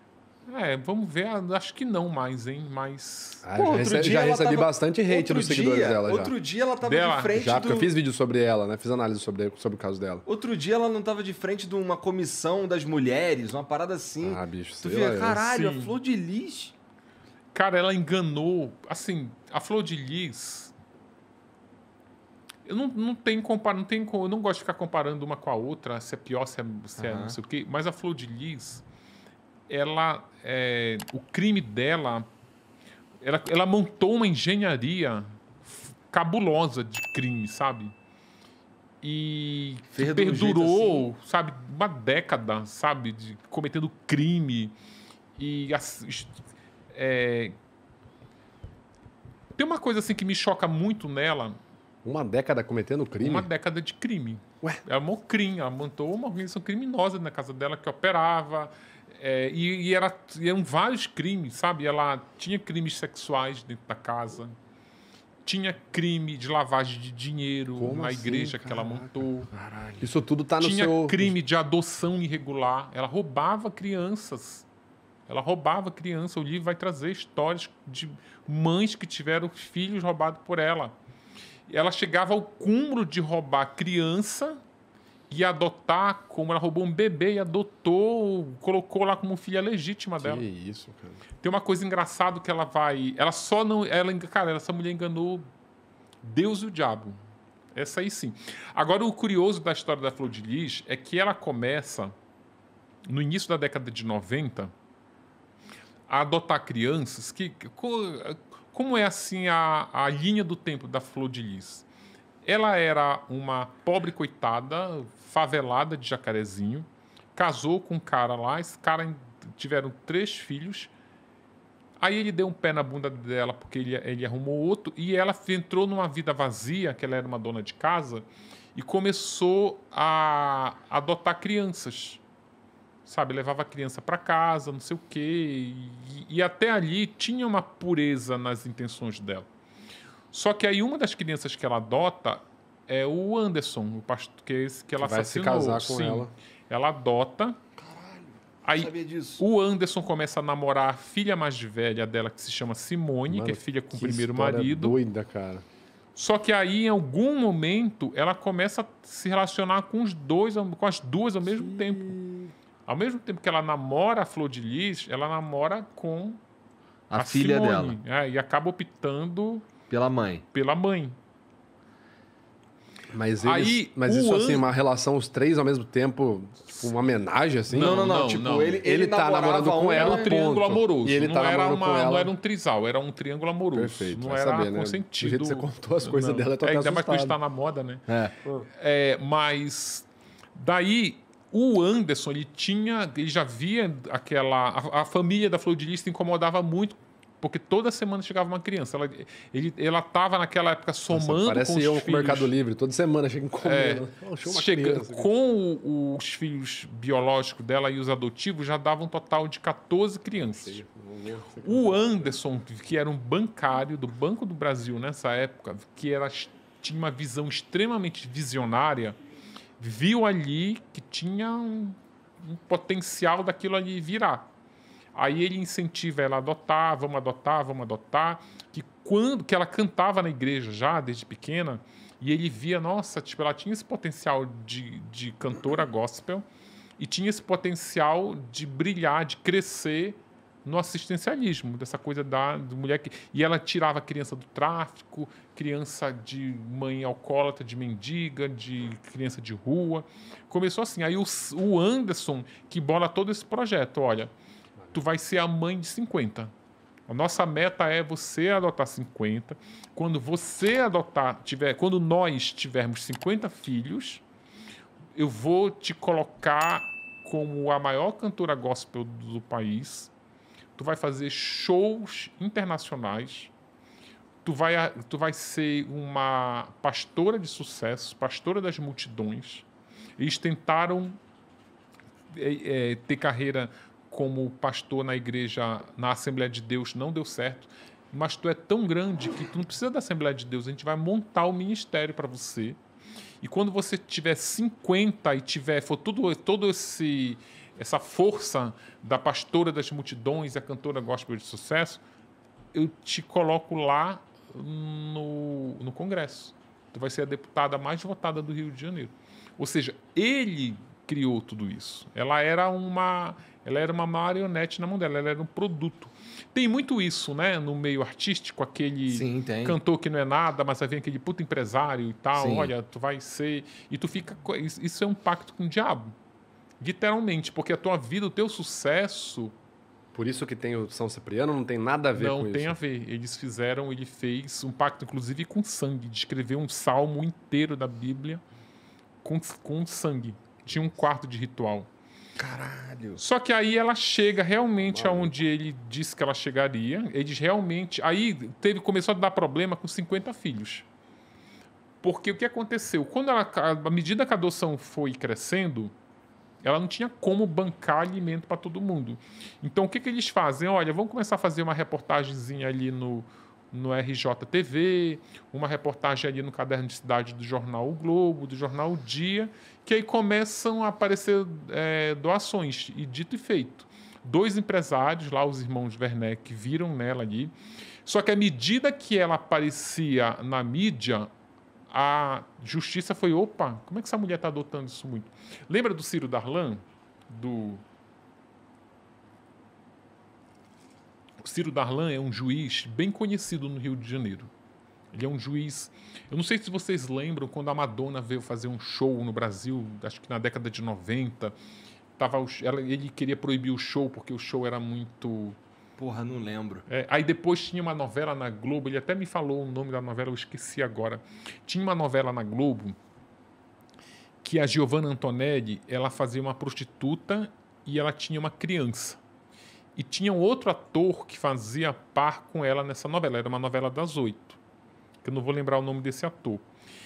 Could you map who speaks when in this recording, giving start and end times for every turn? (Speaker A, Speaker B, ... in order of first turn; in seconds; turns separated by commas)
Speaker A: 0.5-3.5, Speaker B: 3.4-6.3, Speaker C: 3.6-7.9, Speaker A: 6.8-7.4, Speaker B: 7.3-10.2, Speaker C: 10.3-16.8, Speaker B: 14.2-15.4, Speaker A: 15.4-16.0, Speaker A: 17.5-20.7, Speaker A: 22.7-28.8, Speaker C: 27.0-27.4, Speaker A: 29.7-32.3, Speaker A: 33.2-37.9, Speaker A: 39.0-44.8, Speaker C: 39.9-41.1, Speaker A: 45.4-46.3, Speaker A: 46.9-47.6, Speaker A: 49.5-51.6, Speaker B: 52.0-53.5, Speaker A: 53.2-64.5, Speaker A: 65.5-69.5, Speaker B: 67.8-69.2, Speaker C: 69.5-70.1, Speaker B: 70.0-71.3, Speaker A: 70.6-74.7, Speaker A: 75.3-80.9, Speaker A: 81.7-84.6, Speaker A: 85.3-90.4, Speaker B: 90.2-91.2, Speaker A: 91.4-95.5, Speaker A: 96.2-97.2, Speaker A: 97.7-102.2, Speaker A: 103.1-104.7, Speaker A: 106.1-111.9, Speaker A: 112.4-120.9, Speaker A: 122.0-132.2, Speaker A: 133.1-139.5, Speaker A: 140.3-147.6, Speaker B: 145.0-146.3, Speaker C: 147.8-149.4, Speaker A: 148.7-155.0, Speaker B: 153.3-155.6, Speaker A: 156.2-162.2, Speaker B: 161.4-162.5, Speaker A: 162.9-166.4, Speaker C: 167.1-168.0, Speaker A: 167.2-169.7, Speaker C: 169.9-170.4, Speaker A: 170.5-171.2, Speaker B: 173.1-178.2, Speaker A: 173.4-174.7, Speaker A: 176.7-176.9, Speaker A: 177.7-178.8, Speaker C: 177.7-180.3, Speaker B: 178.8-182.3, Speaker A: 179.9-188.1, Speaker B: 183.7-187.4, Speaker C: 188.1-188.3, Speaker A: 188.7-202.5, Speaker B: 201.1-205.3, Speaker A: 203.6-210.8, Speaker B: 210.3-212.3, Speaker A: 211.6-219.2, Speaker A: 219.8-224.5, Speaker A: 225.2-236.4, Speaker A: 237.0-254.3, Speaker A: 254.9-256.5, Speaker A: 257.1-264.2, Speaker A: 265.2-270.1, Speaker A: 270.8-273.5, Speaker A: 274.4-279.6, Speaker A: 280.2-281.2, Speaker A: 282.3-292.8, Speaker A: 293.4-302.0, Speaker A: 302.7-326.1, Speaker C: 319.1-319.8, Speaker C: 322.4-322.7, Speaker A: 326.8-329.5, Speaker B: 330.1-332.8, Speaker A: 332.2-338.4, Speaker A: 339.2-341.9, Speaker C: 342.4-343.2, Speaker A: 343.2-350.9, Speaker B: 344.8-345.3, Speaker A: 352.0-355.9, Speaker A: 356.6-377.5, Speaker A: 378.1-381.3, Speaker A: 381.9-387.8, Speaker A: 391.4-394.5, Speaker A: 395.1-401.6, Speaker A: 402.2-405.6, Speaker C: 406.0-406.9, Speaker A: 406.9-413.0, Speaker A: 414.4-419.2, Speaker A: 420.0-424.6, Speaker A: 425.2-426.6